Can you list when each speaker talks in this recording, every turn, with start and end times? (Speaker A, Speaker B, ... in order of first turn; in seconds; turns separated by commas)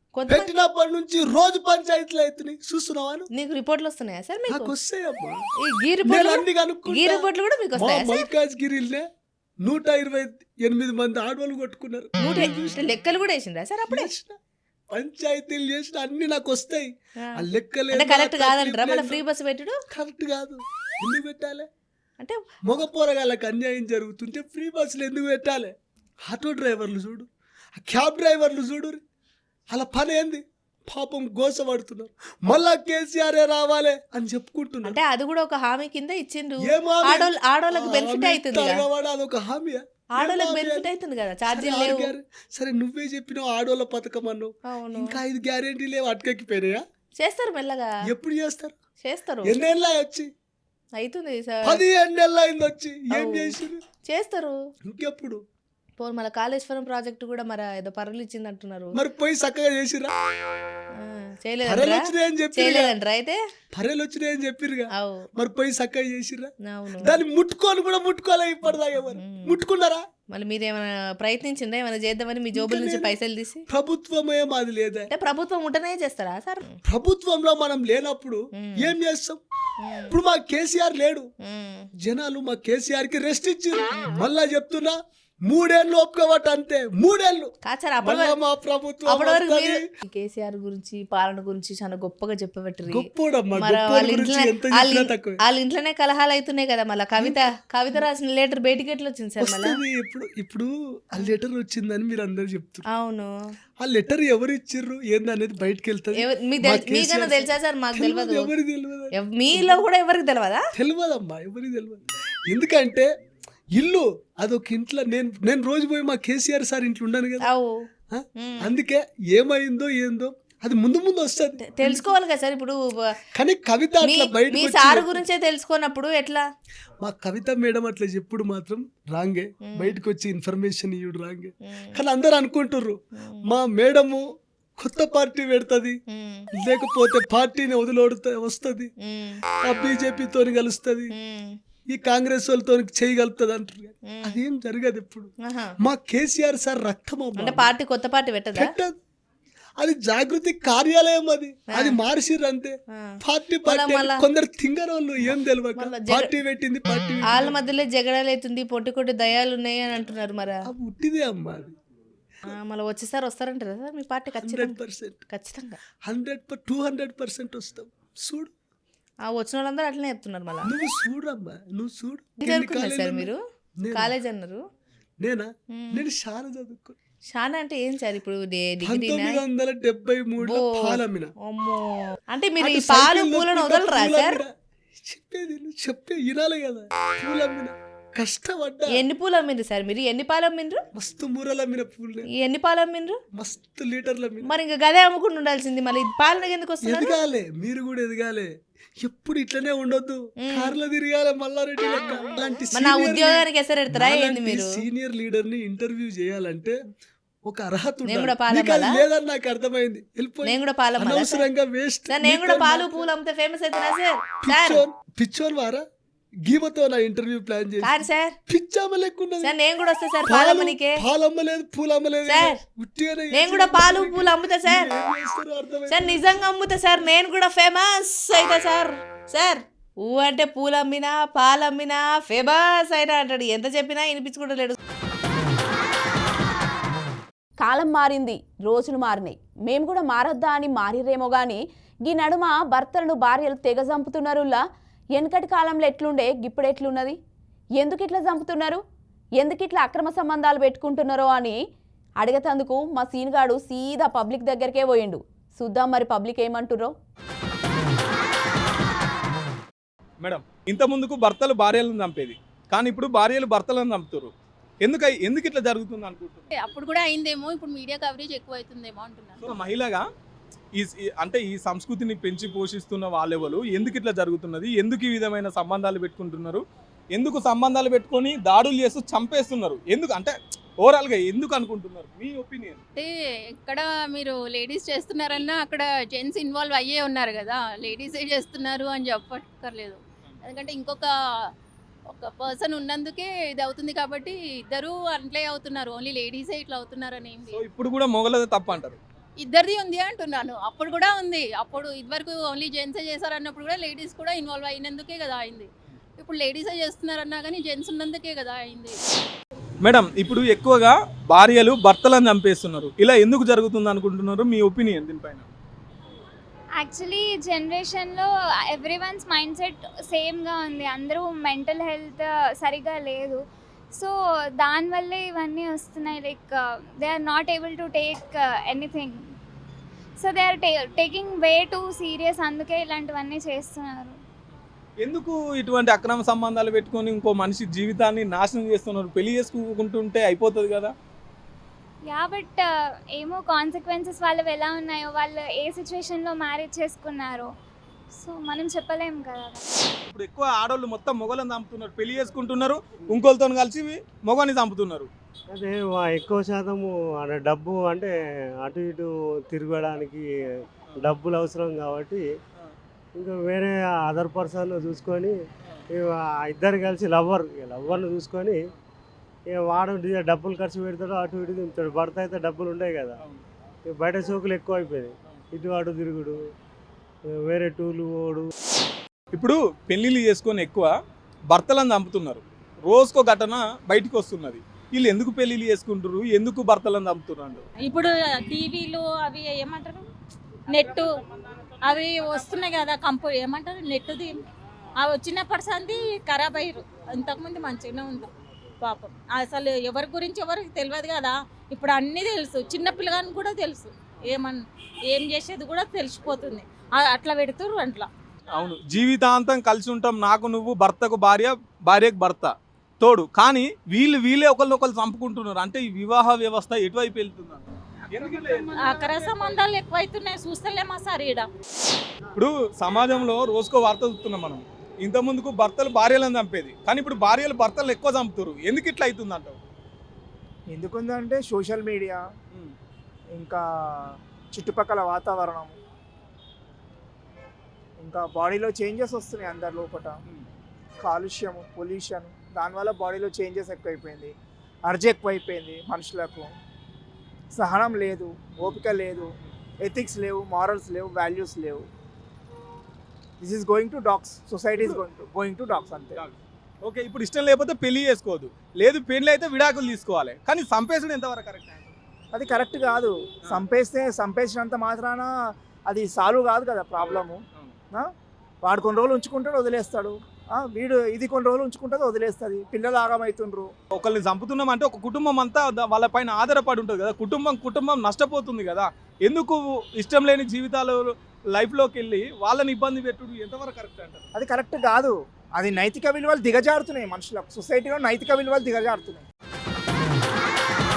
Speaker A: 0.1-0.5, Speaker B: 0.3-3.3, Speaker A: 3.3-4.7, Speaker B: 4.5-5.5, Speaker A: 5.6-8.3, Speaker B: 6.0-9.1, Speaker B: 9.6-12.5, Speaker A: 12.2-14.1, Speaker B: 13.9-14.4, Speaker B: 14.9-19.2, Speaker A: 17.2-19.8, Speaker B: 19.9-21.7, Speaker B: 22.6-29.0, Speaker B: 29.7-35.0, Speaker A: 34.9-38.9, Speaker B: 36.6-40.9, Speaker A: 40.2-42.1, Speaker B: 41.5-46.8, Speaker A: 44.7-45.2, Speaker A: 47.2-47.9, Speaker B: 48.1-48.8, Speaker A: 49.0-49.6, Speaker B: 49.4-50.3, Speaker A: 51.0-51.8, Speaker B: 51.6-53.8, Speaker A: 53.1-54.6, Speaker B: 54.9-55.4, Speaker A: 56.0-59.0, Speaker B: 58.9-60.1, Speaker A: 61.0-63.4, Speaker B: 61.6-62.9, Speaker B: 63.7-70.0, Speaker A: 65.0-65.3, Speaker A: 66.7-67.2, Speaker A: 69.1-69.6, Speaker A: 70.3-73.7, Speaker B: 72.5-73.2, Speaker B: 73.7-75.1, Speaker A: 75.1-76.8, Speaker B: 76.9-79.4, Speaker A: 78.6-78.9, Speaker A: 79.8-80.1, Speaker B: 80.1-81.3, Speaker A: 81.5-81.9, Speaker B: 82.0-89.8, Speaker A: 87.7-88.4, Speaker A: 89.1-99.8, Speaker B: 92.9-95.4, Speaker B: 99.4-102.8, Speaker A: 102.9-103.3, Speaker B: 103.8-109.8, Speaker A: 106.2-108.5, Speaker A: 109.1-110.6, Speaker B: 110.8-113.1, Speaker B: 113.7-117.5, Speaker A: 117.4-117.8, Speaker B: 118.1-122.1, Speaker A: 118.4-118.7, Speaker A: 121.6-123.1, Speaker B: 123.3-125.2, Speaker A: 124.0-126.5, Speaker B: 127.0-133.0, Speaker A: 129.7-130.0, Speaker A: 131.7-132.0, Speaker B: 133.5-134.2, Speaker B: 134.8-136.0, Speaker A: 136.1-136.5, Speaker B: 136.6-138.9, Speaker A: 139.0-139.4, Speaker B: 139.6-141.1, Speaker A: 141.2-141.6, Speaker B: 141.9-145.3, Speaker A: 144.1-144.4, Speaker A: 145.4-145.7, Speaker B: 145.8-147.7, Speaker A: 147.4-148.7, Speaker B: 148.6-149.0, Speaker B: 149.8-157.6, Speaker A: 151.7-152.0, Speaker A: 152.9-154.2, Speaker A: 155.8-156.4, Speaker A: 157.3-160.6, Speaker B: 160.7-161.7, Speaker A: 162.5-165.8, Speaker B: 164.4-165.2, Speaker B: 166.1-168.5, Speaker A: 169.3-170.7, Speaker B: 170.6-174.2, Speaker A: 172.4-173.4, Speaker A: 173.9-174.6, Speaker B: 175.2-177.0, Speaker A: 175.8-176.1, Speaker A: 177.3-179.4, Speaker B: 178.8-181.3, Speaker A: 180.5-184.4, Speaker B: 182.6-184.5, Speaker B: 185.0-189.0, Speaker A: 188.9-190.8, Speaker B: 190.9-192.3, Speaker A: 192.3-193.2, Speaker B: 193.3-194.5, Speaker A: 194.4-197.2, Speaker B: 196.8-206.8, Speaker A: 200.4-200.8, Speaker A: 202.7-204.8, Speaker B: 207.5-213.1, Speaker A: 208.1-209.0, Speaker A: 210.4-211.5, Speaker A: 212.1-214.8, Speaker B: 214.4-215.8, Speaker B: 216.5-219.6, Speaker A: 217.8-218.4, Speaker A: 219.4-221.0, Speaker B: 220.2-226.1, Speaker A: 222.3-222.6, Speaker A: 223.3-224.9, Speaker A: 225.9-234.8, Speaker C: 237.6-244.6, Speaker C: 245.2-247.2, Speaker C: 247.8-248.8, Speaker C: 249.4-251.6, Speaker C: 252.2-256.9, Speaker D: 260.2-264.3, Speaker D: 264.8-266.5, Speaker E: 266.5-269.4, Speaker D: 269.4-270.1, Speaker D: 270.7-276.6, Speaker D: 277.1-282.8, Speaker E: 283.0-291.1, Speaker E: 292.1-297.6, Speaker D: 297.5-299.0, Speaker E: 299.4-309.0, Speaker D: 309.8-315.5, Speaker F: 316.8-323.4, Speaker F: 323.9-329.3, Speaker F: 330.2-334.2, Speaker D: 335.0-340.9, Speaker F: 342.1-347.5, Speaker F: 348.2-349.6, Speaker D: 350.1-355.1, Speaker G: 355.5-362.3, Speaker G: 363.2-365.4, Speaker G: 365.9-368.6, Speaker G: 369.5-373.2, Speaker G: 373.9-376.4, Speaker G: 377.4-378.5, Speaker D: 379.3-380.9, Speaker D: 381.5-387.6, Speaker E: 387.9-390.0, Speaker H: 388.6-390.0, Speaker E: 390.8-391.0, Speaker H: 391.9-394.3, Speaker E: 391.9-394.2, Speaker H: 395.0-398.3, Speaker E: 395.2-398.2, Speaker H: 398.9-403.9, Speaker E: 398.9-401.3, Speaker E: 402.0-404.6, Speaker H: 405.1-408.1, Speaker E: 405.2-406.6, Speaker E: 407.2-408.1, Speaker D: 408.6-419.4, Speaker H: 418.8-421.4, Speaker E: 418.9-421.4, Speaker D: 422.4-429.6, Speaker I: 430.7-432.2, Speaker I: 433.4-433.6, Speaker I: 434.5-435.8, Speaker I: 438.0-440.2, Speaker I: 441.0-444.3, Speaker I: 444.9-446.5, Speaker I: 447.6-449.3, Speaker I: 449.8-451.9, Speaker I: 453.4-456.2, Speaker D: 456.2-461.9, Speaker I: 462.3-465.3, Speaker I: 465.9-467.4, Speaker I: 468.6-473.7, Speaker D: 473.9-484.2, Speaker I: 484.3-489.2